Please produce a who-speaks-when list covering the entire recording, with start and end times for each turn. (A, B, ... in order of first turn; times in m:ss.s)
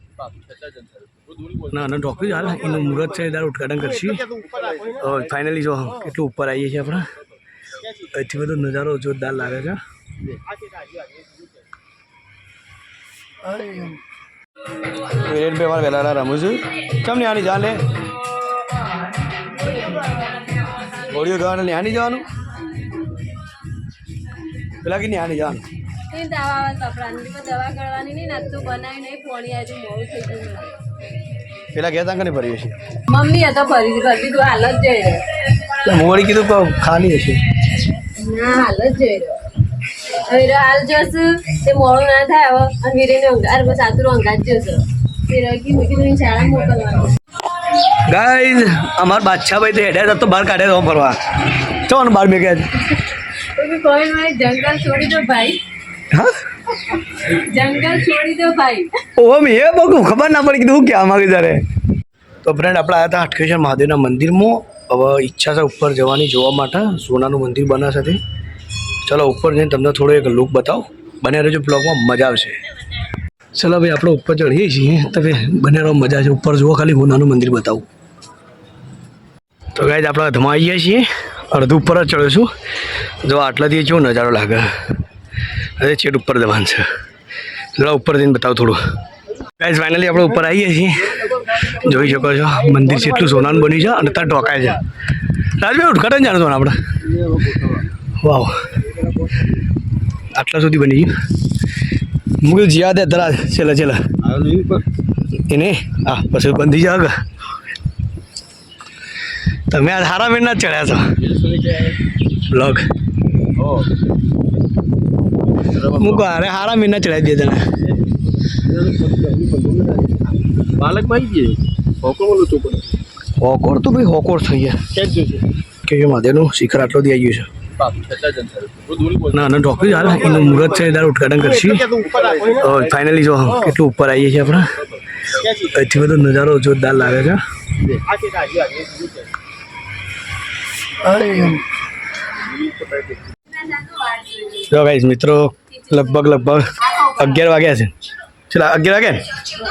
0:00.3-0:01.6 A
0:01.7-0:04.3 B
0:05.0-0:07.0 B
0:08.1-0:09.8 B
0:13.5-0:14.0 B
0:15.1-0:17.8 B
0:21.1-0:22.2 B
0:24.8-0:25.6 B
0:26.1-0:30.8 C
0:31.7-0:32.8 B
0:33.1-0:35.2 C
0:35.8-0:37.4 B
0:38.2-0:39.4 C
0:40.3-0:47.1 C
0:48.0-0:51.2 B
0:51.9-0:52.7 B
0:53.6-0:55.6 C
0:57.4-0:58.9 C
0:59.2-1:01.6 B
1:02.4-1:08.2 B
1:09.0-1:12.6 B
1:13.6-1:17.9 B
1:19.8-1:22.5 B
1:23.2-1:24.7 B
1:25.8-1:26.9 B
1:27.8-1:28.8 B
1:29.6-1:34.8 B
1:35.6-1:36.8 B
1:38.2-1:38.6 B
1:40.3-1:41.1 B
1:42.4-1:44.0 B
1:44.3-1:44.8 A
1:45.5-1:47.2 B
1:49.7-1:51.0 B
1:52.5-1:52.9 B
1:55.8-1:56.2 A
1:55.8-1:57.6 B
1:58.8-2:00.1 A
2:00.8-2:02.8 A
2:03.4-2:04.8 B
2:05.9-2:07.5 B
2:07.8-2:09.4 A
2:09.3-2:11.9 B
2:10.3-2:10.6 A
2:12.6-2:14.7 B
2:15.7-2:17.4 B
2:21.0-2:21.6 B
2:24.6-2:26.6 B
2:26.9-2:27.4 C
2:27.2-2:27.9 B
2:28.5-2:29.2 B